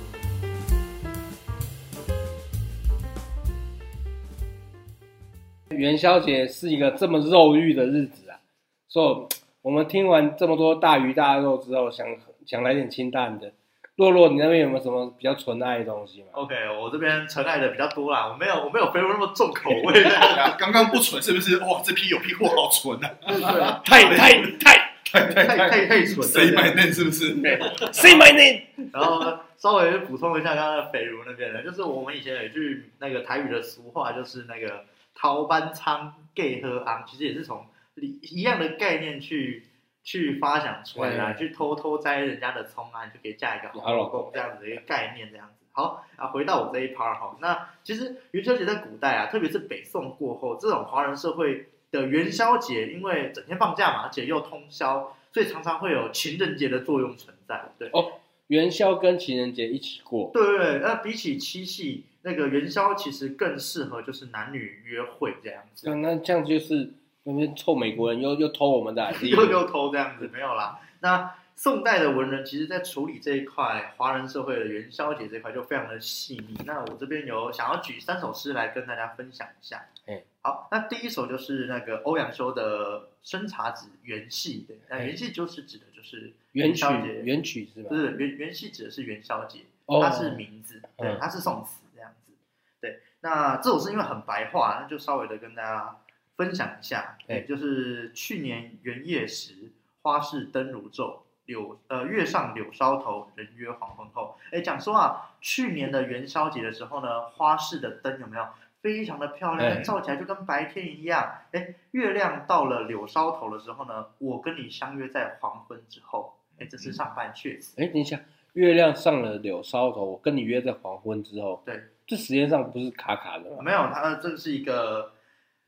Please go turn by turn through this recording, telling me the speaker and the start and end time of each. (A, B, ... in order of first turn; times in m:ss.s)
0:05.7-0:16.4 A
0:16.3-0:20.6 B
0:20.0-0:28.1 C
0:23.3-0:24.2 B
0:23.5-0:24.9 A
0:25.3-0:26.8 B
0:27.4-0:28.7 A
0:28.9-0:58.0 B
0:41.0-0:41.4 A
0:43.7-0:44.4 A
0:57.9-1:00.3 A
1:00.3-1:05.9 B
1:05.8-1:09.6 A
1:09.1-1:19.9 B
1:20.4-1:27.3 B
1:26.5-1:28.0 A
1:27.9-1:57.8 B
1:29.9-1:30.4 A
1:49.6-1:49.9 A
1:57.8-2:03.7 A
2:03.6-2:05.1 B